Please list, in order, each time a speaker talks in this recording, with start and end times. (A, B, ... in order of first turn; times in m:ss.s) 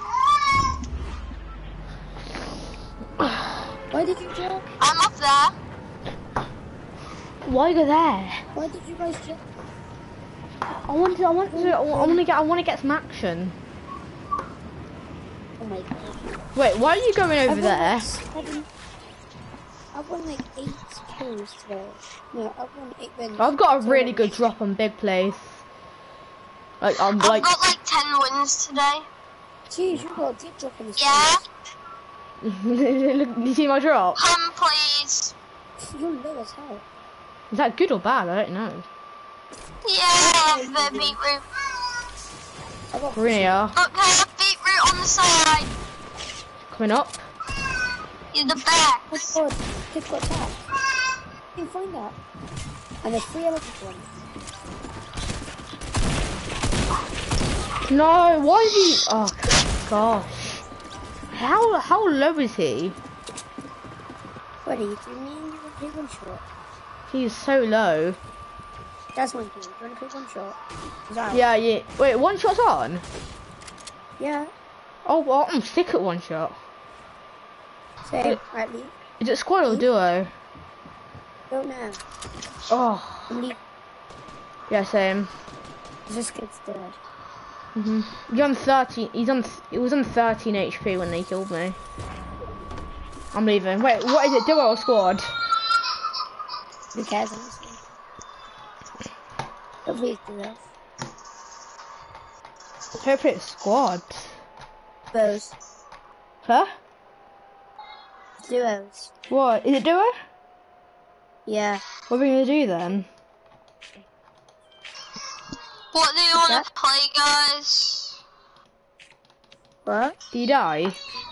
0:03.9-0:04.7 A
0:04.8-0:05.5 B
0:07.4-0:08.4 C
0:08.5-0:09.4 A
0:10.8-0:13.6 C
0:11.4-0:12.2 A
0:15.6-0:16.4 A
0:16.5-0:18.1 C
0:17.4-0:18.7 A
0:19.9-0:24.5 A
0:23.4-0:25.6 C
0:26.8-0:27.5 C
0:27.2-0:29.1 B
0:29.7-0:31.4 A
0:31.0-0:31.4 B
0:32.4-0:34.2 C
0:34.1-0:35.3 B
0:35.8-0:36.8 A
0:37.5-0:38.8 C
0:39.8-0:41.4 B
0:40.2-0:41.2 A
0:42.9-0:43.6 A
0:43.1-0:43.7 C
0:43.7-0:45.7 B
0:46.7-0:47.2 C
0:48.3-0:49.2 B
0:49.1-0:50.6 A
0:51.6-0:52.2 A
0:53.0-0:54.1 A
0:57.9-1:00.6 C
1:01.3-1:03.0 C
1:04.6-1:06.4 A
1:07.1-1:08.2 C
1:09.1-1:10.6 A
1:11.1-1:11.4 A
1:11.3-1:13.0 C
1:14.2-1:14.5 A
1:15.0-1:16.6 C
1:18.0-1:18.9 A
1:19.2-1:20.3 C
1:21.5-1:22.0 A
1:22.7-1:23.3 C
1:23.3-1:23.6 A
1:24.7-1:25.3 C
1:26.1-1:27.0 A
1:27.8-1:31.8 C
1:33.3-1:35.3 C
1:36.9-1:37.8 A
1:39.8-1:40.6 A
1:43.0-1:44.3 C
1:45.1-1:45.5 A
1:48.4-1:49.1 A
1:49.3-1:50.1 C
1:51.5-1:51.8 A
1:52.1-1:53.1 C
1:55.9-1:58.2 B
1:56.3-1:56.6 A
1:59.8-2:00.2 A
2:00.3-2:01.0 C